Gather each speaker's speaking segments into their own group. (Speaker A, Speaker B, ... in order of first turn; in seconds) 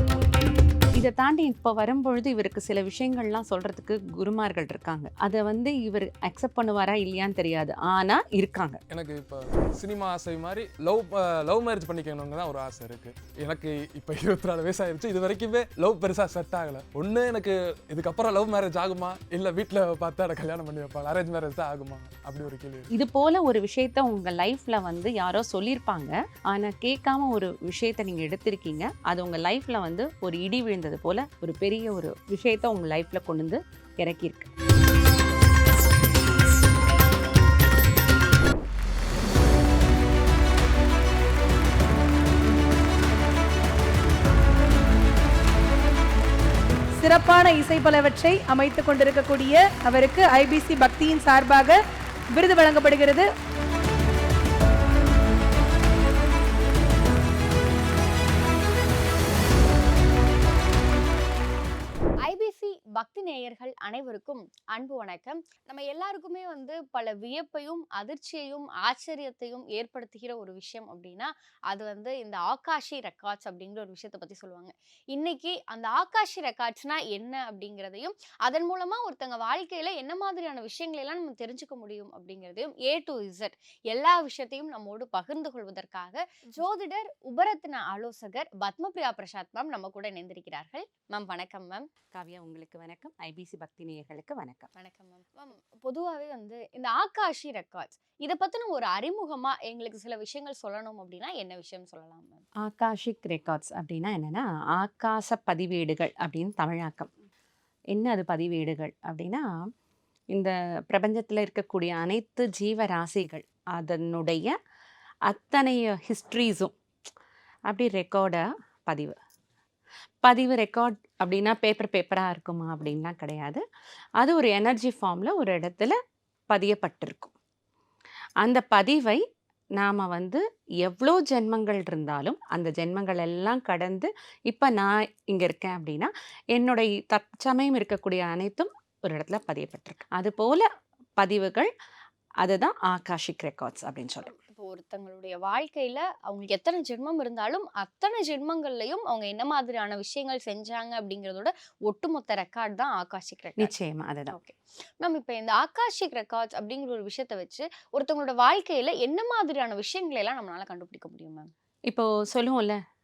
Speaker A: 0.9-8.8, 22.9-34.5, 92.1-94.7, 102.6-107.1, 107.9-109.6, 110.3-114.5, 115.2-116.7, 117.7-119.2, 120.2-123.6, 124.2-126.0, 126.5-127.3, 128.4-129.2, 129.8-141.7, 142.4-144.3, 153.6-154.3, 161.9-162.8
Speaker B: 8.9-22.9
Speaker C: 47.0-51.8, 52.3-53.3
Speaker D: 62.2-91.9, 94.8-102.4, 144.2-153.7, 154.3-161.5